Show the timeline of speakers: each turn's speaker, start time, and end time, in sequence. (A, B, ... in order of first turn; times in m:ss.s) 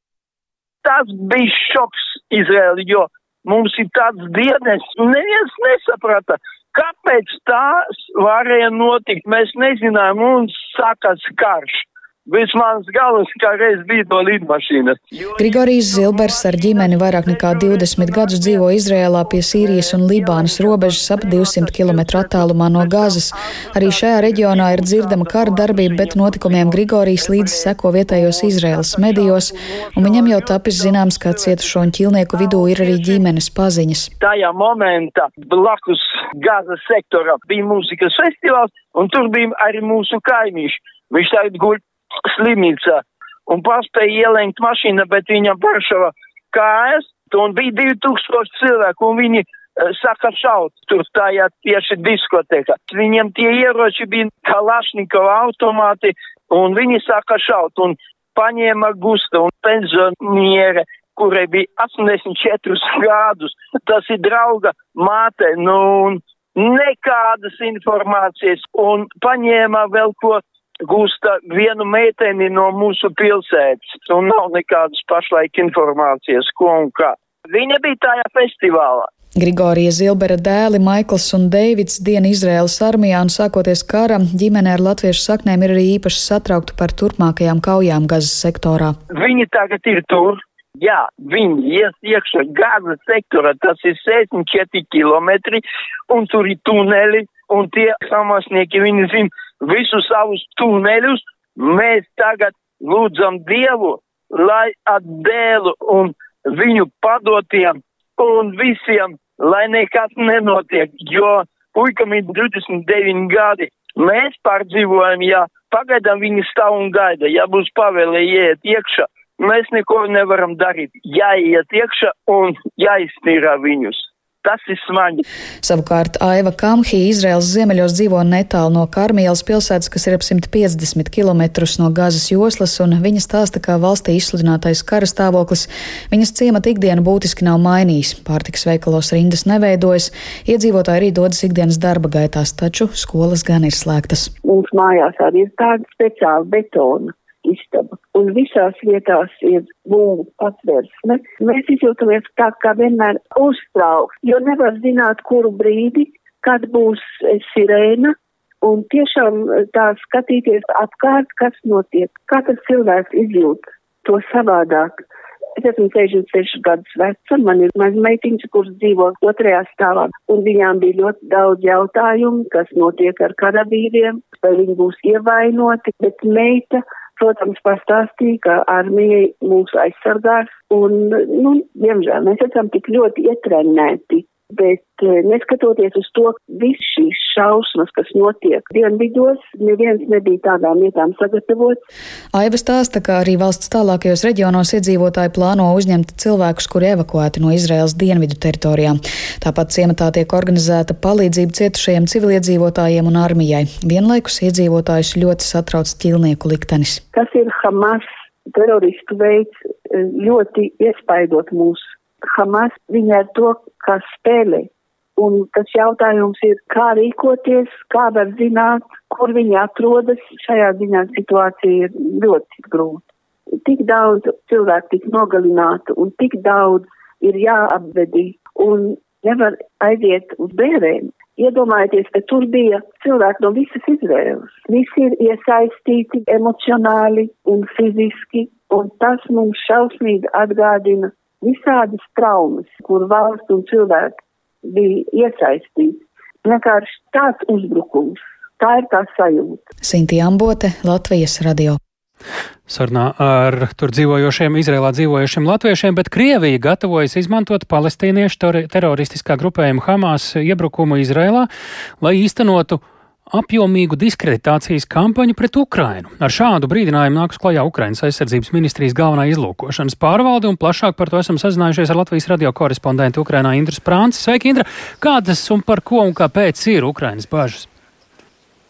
0:00.8-0:18.7 A
0:15.4-0:34.1 B
0:19.2-0:31.7 A
0:32.3-0:33.2 A
0:34.2-1:19.1 A
1:19.4-1:29.0 B
1:29.1-2:05.2 A
2:05.6-2:24.3 B
2:24.4-2:45.0 C
2:45.6-3:11.8 C
3:12.3-3:27.0 B
3:27.1-3:43.0 C
3:43.6-4:09.6 C
4:09.8-4:11.8 B
4:12.7-4:21.5 D
4:22.0-4:37.7 D